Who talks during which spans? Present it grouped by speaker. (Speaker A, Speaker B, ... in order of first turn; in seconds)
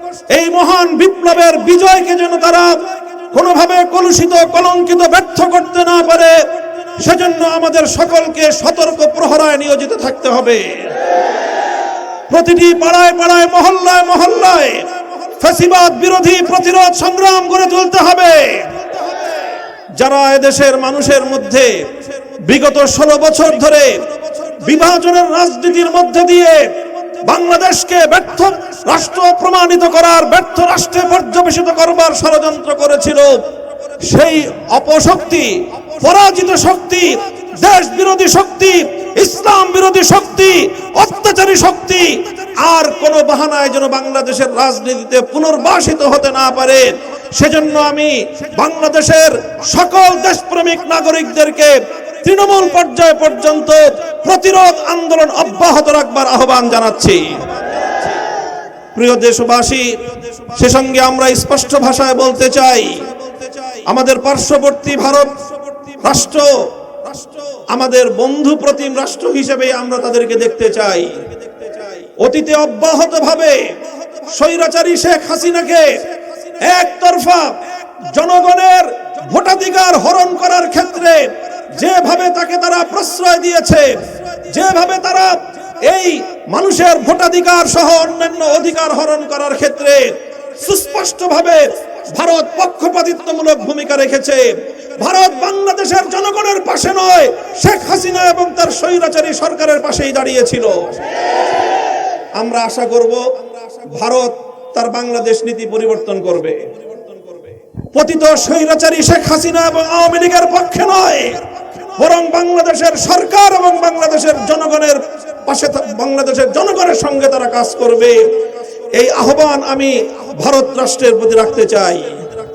Speaker A: 0.2-11.0, 12.3-18.9, 19.9-58.2, 58.9-101.2, 102.3-122.4